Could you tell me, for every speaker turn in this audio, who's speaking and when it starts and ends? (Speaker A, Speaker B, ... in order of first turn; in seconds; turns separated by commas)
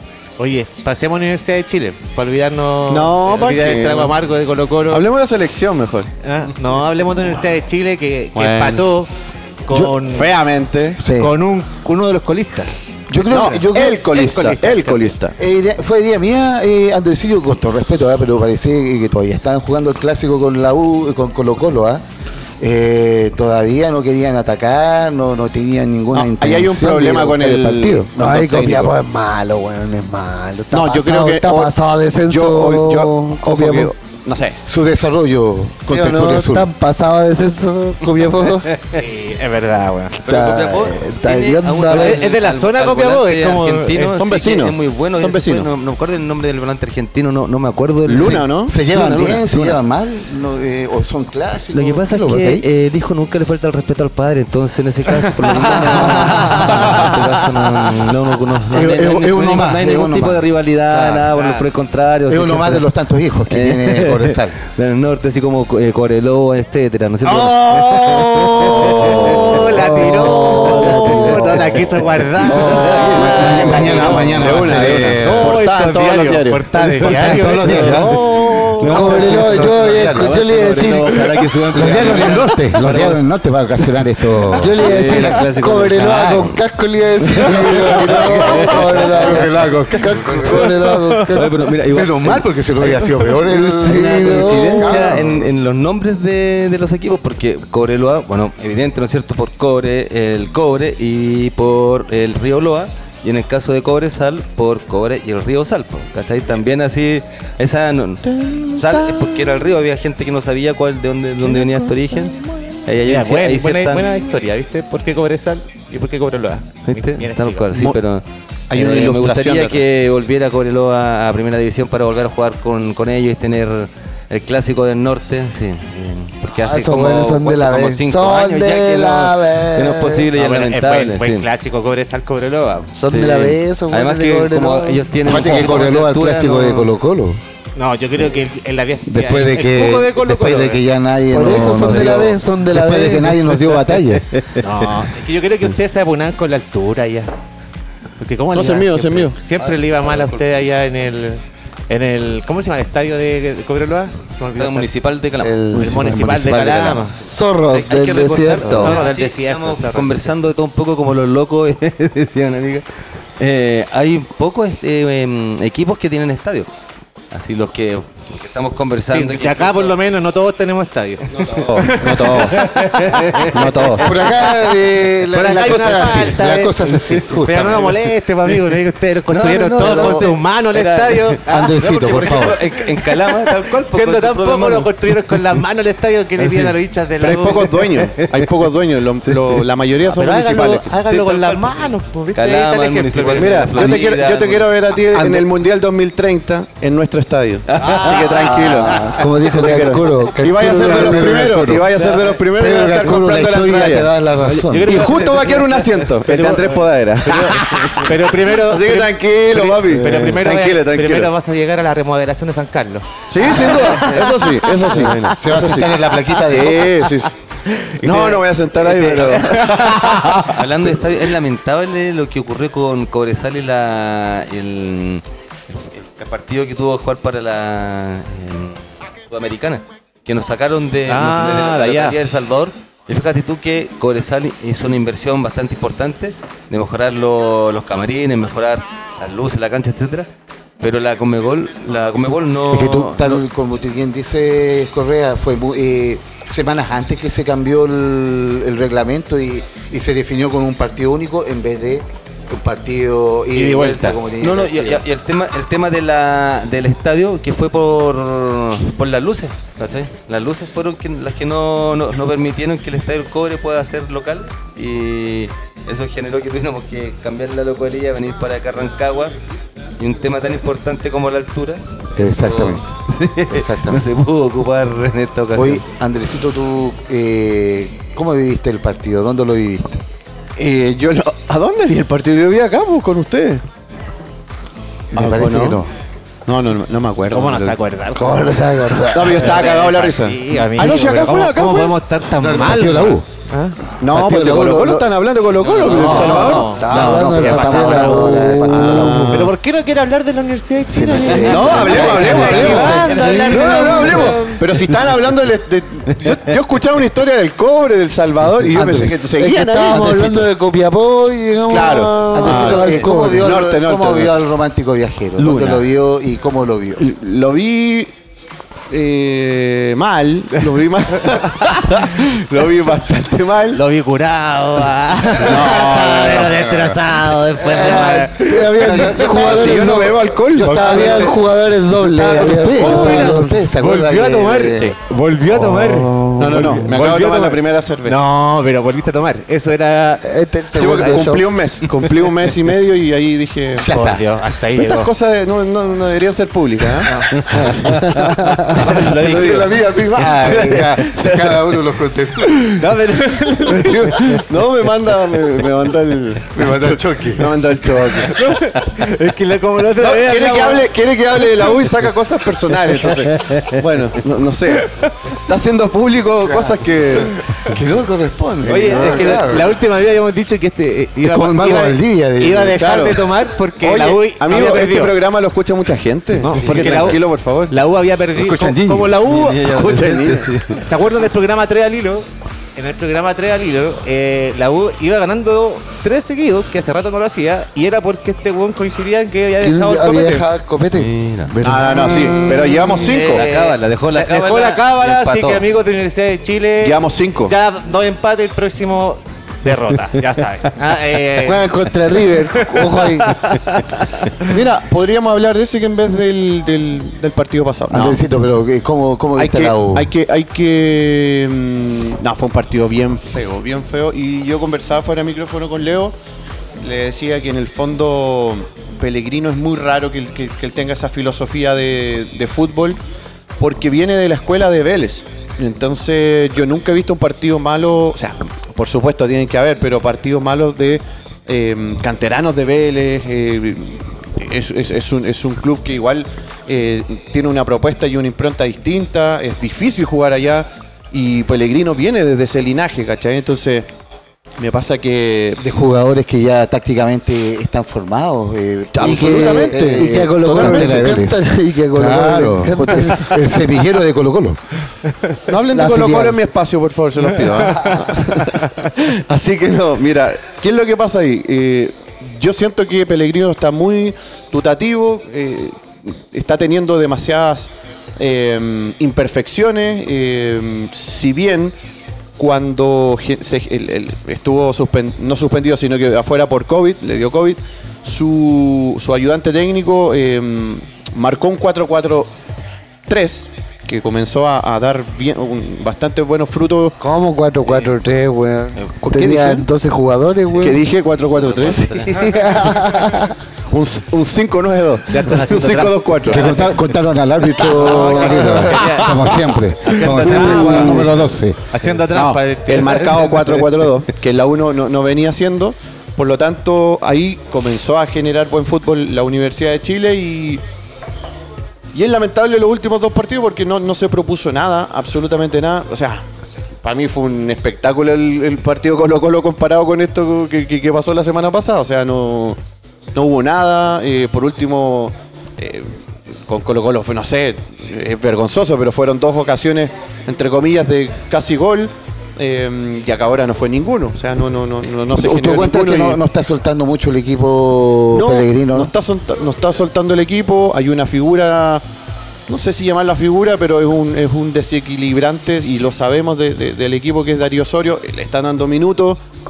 Speaker A: 0.4-5.1, Speaker B: 2.9-4.2, Speaker B: 4.9-6.1, Speaker A: 6.2-9.1, Speaker B: 8.3-8.9, Speaker A: 9.7-10.3, Speaker B: 9.8-11.0, Speaker C: 11.0-11.3, Speaker A: 11.1-12.7, Speaker C: 13.1-14.6, Speaker B: 13.3-15.4, Speaker A: 13.3-15.1, Speaker C: 15.4-22.0, Speaker C: 22.6-28.9, Speaker B: 26.1-28.9, Speaker D: 28.1-33.9, Speaker B: 30.7-31.8, Speaker B: 32.3-34.6, Speaker C: 34.6-36.7, Speaker D: 35.9-38.8, Speaker A: 38.9-40.2, Speaker D: 40.2-42.2, Speaker E: 40.2-49.8, Speaker A: 41.9-44.2, Speaker B: 44.2-45.7, Speaker B: 48.0-48.8, Speaker C: 48.7-52.6, Speaker E: 51.7-62.9, Speaker C: 55.4-57.3, Speaker C: 58.7-61.3, Speaker A: 61.3-61.6, Speaker C: 62.3-64.6, Speaker E: 63.5-74.0, Speaker A: 67.2-78.7, Speaker B: 69.0-69.5, Speaker D: 69.7-71.6, Speaker B: 72.5-79.0, Speaker C: 72.5-75.6, Speaker C: 77.0-78.3, Speaker E: 77.7-78.1, Speaker E: 78.8-83.2, Speaker C: 78.8-80.3, Speaker D: 78.8-82.0, Speaker C: 81.7-86.6, Speaker E: 84.4-86.6, Speaker D: 84.6-91.5, Speaker E: 87.2-89.5, Speaker C: 87.4-90.7, Speaker E: 90.3-114.1, Speaker A: 90.8-91.2, Speaker C: 91.9-95.5, Speaker D: 93.7-95.2, Speaker B: 108.3-109.3, Speaker A: 113.0-117.8, Speaker E: 116.9-131.5, Speaker B: 118.7-119.8, Speaker D: 126.6-130.3, Speaker A: 130.3-132.9, Speaker D: 133.0-135.7, Speaker E: 133.1-136.9, Speaker C: 135.2-137.4, Speaker A: 137.8-140.8, Speaker C: 139.1-144.3, Speaker D: 141.3-143.5, Speaker A: 144.6-147.3, Speaker A: 148.2-154.9, Speaker B: 148.5-149.4, Speaker E: 154.6-155.7, Speaker C: 155.4-157.1, Speaker A: 155.7-157.3, Speaker D: 157.2-159.0, Speaker E: 157.7-162.9, Speaker A: 158.5-160.3, Speaker E: 163.4-166.7, Speaker E: 167.3-170.0, Speaker A: 169.1-174.5, Speaker E: 171.3-174.1, Speaker B: 171.4-172.7, Speaker B: 173.4-174.2, Speaker C: 174.0-177.9, Speaker A: 175.3-188.1, Speaker E: 179.3-185.6, Speaker C: 181.5-182.6, Speaker E: 186.4-186.7, Speaker B: 187.2-190.9, Speaker E: 187.3-188.7, Speaker E: 189.3-189.6, Speaker A: 190.1-194.0, Speaker E: 191.1-194.8, Speaker B: 193.3-204.1, Speaker C: 195.1-195.5, Speaker E: 197.7-198.9, Speaker C: 198.3-199.8, Speaker D: 199.0-201.8, Speaker C: 200.5-201.8, Speaker C: 202.5-205.0, Speaker A: 204.4-215.3, Speaker B: 204.8-211.3, Speaker B: 213.3-217.3, Speaker E: 213.6-215.4, Speaker C: 215.3-217.0, Speaker A: 217.7-220.4, Speaker B: 218.0-221.0, Speaker E: 219.0-219.3, Speaker E: 220.4-240.3, Speaker A: 231.1-232.2, Speaker E: 240.8-243.4, Speaker C: 242.7-255.1, Speaker A: 253.5-254.2, Speaker E: 254.4-269.3, Speaker E: 270.0-275.8, Speaker C: 272.1-272.8, Speaker C: 273.5-274.1, Speaker C: 275.6-280.0, Speaker B: 280.6-283.6, Speaker C: 285.1-285.9, Speaker B: 285.1-285.8, Speaker B: 286.5-287.8, Speaker A: 287.3-288.6, Speaker D: 288.2-289.4, Speaker B: 289.1-292.0, Speaker A: 289.2-293.8, Speaker C: 292.4-293.2, Speaker B: 294.0-297.1, Speaker C: 294.1-295.1, Speaker A: 295.6-304.6, Speaker C: 295.9-299.5, Speaker D: 296.0-299.2, Speaker B: 298.7-299.5, Speaker C: 300.9-303.4, Speaker D: 301.3-302.0, Speaker B: 301.3-310.4, Speaker D: 303.1-304.3, Speaker C: 308.7-309.3, Speaker D: 309.3-313.6, Speaker C: 309.9-310.3, Speaker B: 311.7-314.4, Speaker C: 312.3-317.0, Speaker B: 315.4-315.8, Speaker B: 317.0-318.1, Speaker B: 318.9-323.8, Speaker A: 323.7-329.4, Speaker B: 325.4-326.8, Speaker C: 327.6-335.0, Speaker D: 327.7-333.5, Speaker B: 329.0-331.3, Speaker A: 330.6-331.3, Speaker A: 332.5-340.3, Speaker D: 335.8-336.8, Speaker B: 336.4-338.2, Speaker D: 340.2-341.5, Speaker B: 340.7-343.9, Speaker C: 343.8-344.2, Speaker A: 343.8-345.1, Speaker B: 344.8-347.9, Speaker E: 347.3-349.8, Speaker D: 348.4-348.7, Speaker B: 348.8-349.6, Speaker C: 348.8-352.9, Speaker E: 350.4-350.8, Speaker A: 352.8-354.4, Speaker C: 353.8-354.1, Speaker B: 354.3-358.4, Speaker C: 356.5-357.6, Speaker A: 358.2-361.8, Speaker B: 360.0-367.4, Speaker E: 363.5-363.8, Speaker A: 364.8-365.1, Speaker C: 366.4-369.8, Speaker A: 368.7-375.1, Speaker B: 368.9-369.3, Speaker C: 371.2-372.8, Speaker B: 372.8-377.8, Speaker A: 376.4-379.8, Speaker C: 376.4-377.0, Speaker C: 378.4-379.2, Speaker E: 379.2-380.8, Speaker B: 379.6-380.5, Speaker A: 380.7-390.5, Speaker D: 389.6-392.9, Speaker E: 390.9-391.6, Speaker B: 391.6-393.4, Speaker C: 391.6-392.2, Speaker A: 392.9-401.8, Speaker E: 393.1-395.6, Speaker B: 396.8-397.5, Speaker D: 401.4-403.4, Speaker A: 402.6-404.5, Speaker B: 404.4-408.2, Speaker C: 407.9-410.1, Speaker B: 409.4-416.1, Speaker B: 416.8-423.0, Speaker B: 423.6-443.9, Speaker B: 444.6-445.6, Speaker C: 445.6-454.6, Speaker B: 448.9-451.2, Speaker D: 449.1-453.4, Speaker B: 455.5-471.7, Speaker C: 455.8-456.4, Speaker D: 455.9-456.3, Speaker B: 472.4-482.3, Speaker B: 483.1-487.0, Speaker D: 487.0-490.8, Speaker E: 488.8-489.6, Speaker E: 490.5-490.8, Speaker B: 490.6-492.1, Speaker E: 491.4-492.7, Speaker D: 492.1-493.4, Speaker B: 493.7-496.7, Speaker A: 495.1-496.9, Speaker C: 496.3-501.6, Speaker B: 497.7-498.9, Speaker D: 498.3-498.7, Speaker A: 498.7-503.5, Speaker E: 499.9-501.1, Speaker B: 500.0-500.9, Speaker B: 502.1-510.6, Speaker B: 511.9-516.2, Speaker B: 516.8-522.6, Speaker B: 523.1-536.2, Speaker C: 535.1-538.9, Speaker B: 538.1-541.8, Speaker B: 542.5-549.2